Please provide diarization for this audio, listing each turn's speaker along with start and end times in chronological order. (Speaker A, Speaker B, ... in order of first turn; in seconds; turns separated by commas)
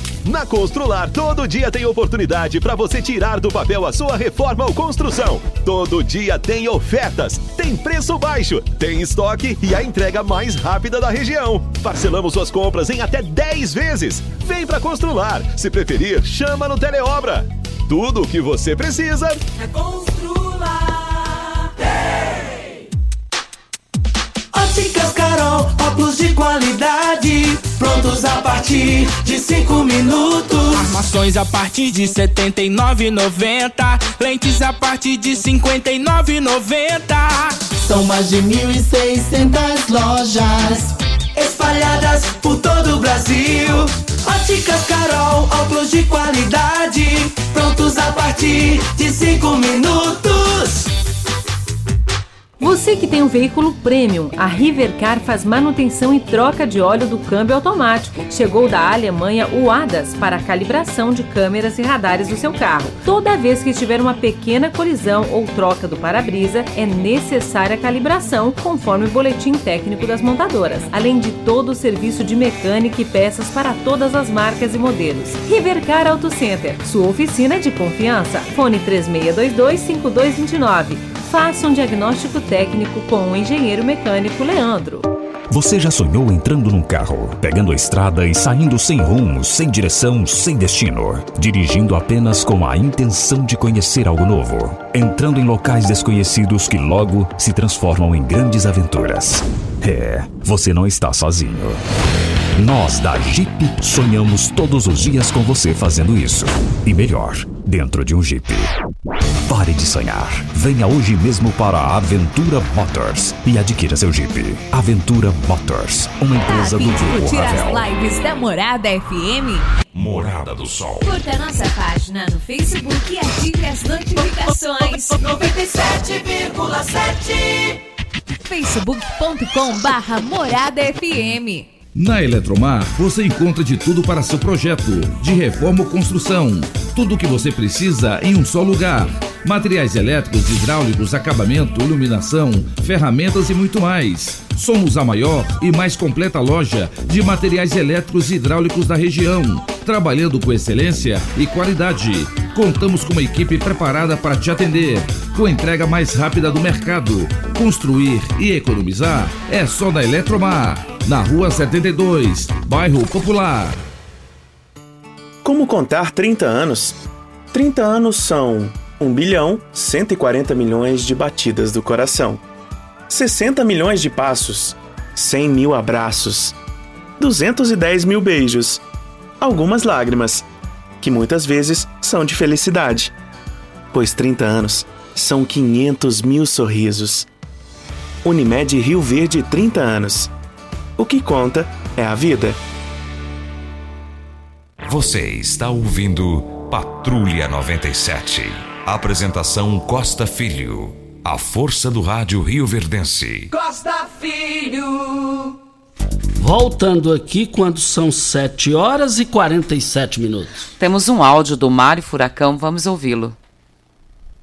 Speaker A: 0.2-19.4, Speaker B: 19.6-21.3, Speaker B: 24.5-30.6, Speaker C: 30.7-37.6, Speaker D: 37.9-40.6, Speaker B: 41.4-50.8, Speaker E: 52.6-85.1, Speaker F: 85.5-101.8, Speaker F: 102.6-108.7, Speaker F: 109.5-117.9, Speaker G: 116.4-119.7, Speaker G: 121.0-125.2, Speaker B: 125.2-127.8, Speaker G: 128.4-131.7, Speaker H: 131.9-163.8, Speaker I: 165.4-167.0, Speaker I: 167.5-172.4, Speaker I: 173.1-176.6, Speaker I: 177.2-178.8, Speaker I: 179.4-180.5, Speaker I: 181.0-183.1, Speaker I: 183.9-187.3, Speaker I: 188.2-190.3, Speaker I: 191.0-192.6, Speaker J: 194.8-203.5, Speaker B: 203.5-205.6, Speaker K: 206.4-210.7, Speaker L: 210.8-213.3